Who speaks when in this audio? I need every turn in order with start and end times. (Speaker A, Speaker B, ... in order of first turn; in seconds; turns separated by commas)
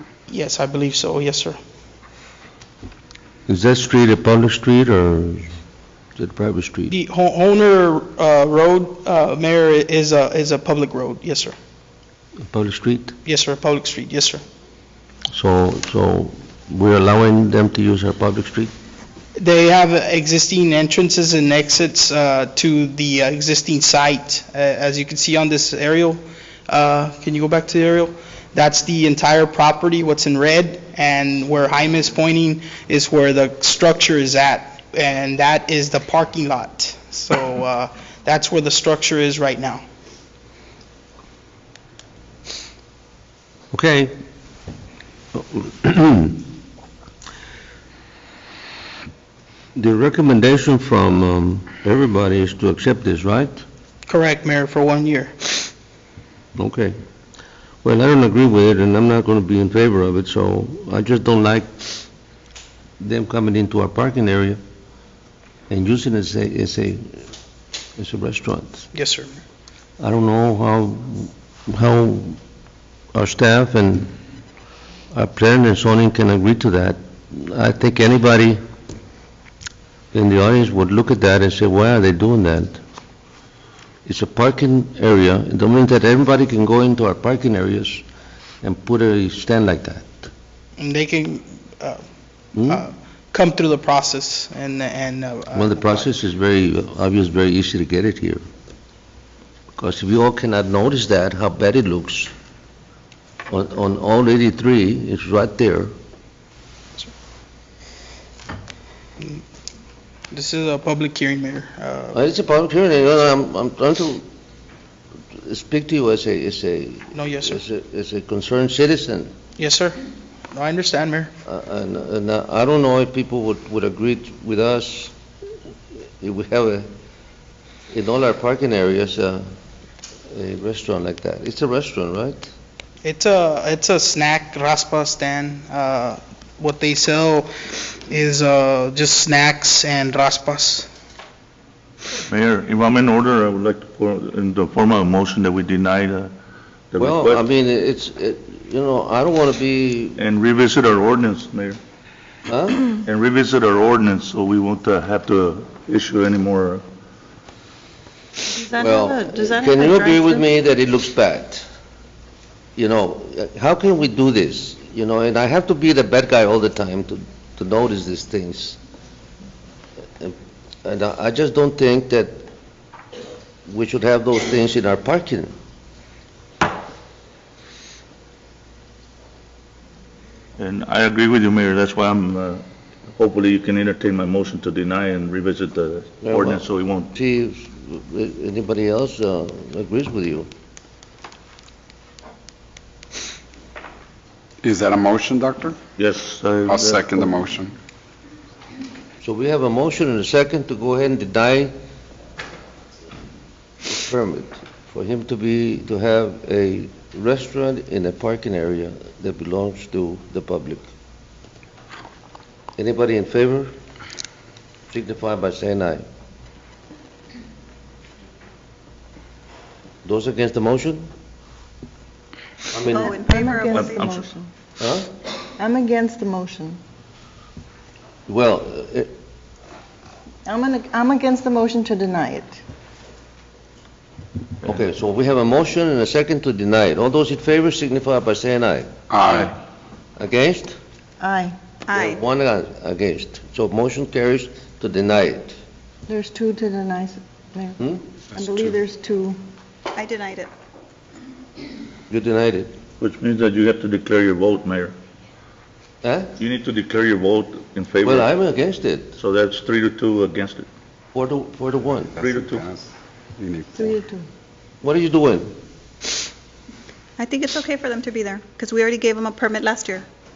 Speaker A: 0.3-1.6, Speaker B: 3.5-5.5, Speaker B: 6.2-6.9, Speaker A: 6.9-11.5, Speaker B: 12.4-13.1, Speaker A: 13.2-14.4, Speaker B: 15.3-18.7, Speaker A: 19.4-39.8, Speaker B: 43.7-44.1, Speaker B: 45.4-46.4, Speaker B: 49.7-53.6, Speaker A: 54.1-55.7, Speaker B: 56.5-56.9, Speaker B: 57.8-61.8, Speaker B: 63.0-64.6, Speaker B: 65.7-67.0, Speaker B: 68.0-68.8, Speaker A: 68.9-69.4, Speaker B: 70.0-72.4, Speaker B: 73.1-74.1, Speaker B: 75.1-78.6, Speaker B: 80.1-82.8, Speaker B: 84.0-88.0, Speaker B: 88.6-90.3, Speaker A: 90.8-92.0, Speaker B: 92.5-92.8, Speaker A: 92.7-96.2, Speaker B: 95.5-98.4, Speaker B: 99.8-102.3, Speaker B: 103.5-105.9, Speaker A: 110.3-112.2, Speaker B: 112.1-114.2, Speaker B: 115.3-119.3, Speaker A: 117.1-117.6, Speaker A: 119.6-120.0, Speaker A: 120.5-121.3, Speaker B: 121.4-125.1, Speaker B: 126.2-126.9, Speaker B: 127.9-129.4, Speaker B: 130.3-132.5, Speaker A: 133.0-140.9, Speaker C: 142.3-146.3, Speaker C: 146.9-147.4, Speaker B: 147.0-150.2, Speaker C: 150.2-151.8, Speaker B: 152.5-152.8, Speaker C: 153.0-156.8, Speaker D: 158.5-160.4, Speaker B: 158.8-161.6, Speaker B: 162.8-168.8, Speaker B: 170.2-172.4, Speaker B: 173.7-175.5, Speaker C: 180.6-182.6, Speaker C: 183.2-187.1, Speaker B: 186.2-190.5, Speaker E: 194.6-195.8, Speaker C: 196.0-197.4, Speaker E: 196.7-197.7, Speaker B: 199.2-201.7, Speaker B: 203.9-210.8, Speaker B: 212.8-213.7, Speaker B: 214.9-216.0, Speaker B: 220.0-221.1, Speaker B: 222.7-223.1, Speaker F: 222.9-224.1, Speaker D: 222.9-224.5, Speaker C: 223.7-224.2, Speaker B: 224.8-225.1, Speaker D: 225.6-226.8, Speaker B: 228.3-229.1, Speaker D: 230.4-232.6, Speaker B: 234.6-239.5, Speaker E: 239.1-239.5, Speaker B: 240.2-240.8, Speaker D: 241.2-241.6, Speaker F: 241.9-242.2, Speaker B: 241.9-245.6, Speaker D: 246.1-247.8, Speaker B: 247.8-248.0, Speaker D: 248.3-249.4, Speaker E: 248.4-248.7, Speaker F: 249.9-250.5, Speaker B: 252.1-252.7, Speaker C: 253.0-254.9, Speaker B: 256.0-256.3, Speaker C: 256.4-258.3, Speaker B: 258.0-259.1, Speaker C: 259.2-260.6, Speaker B: 261.1-262.1, Speaker C: 262.1-262.6, Speaker E: 262.1-263.8, Speaker D: 263.8-264.2, Speaker B: 264.8-265.5, Speaker F: 267.2-270.1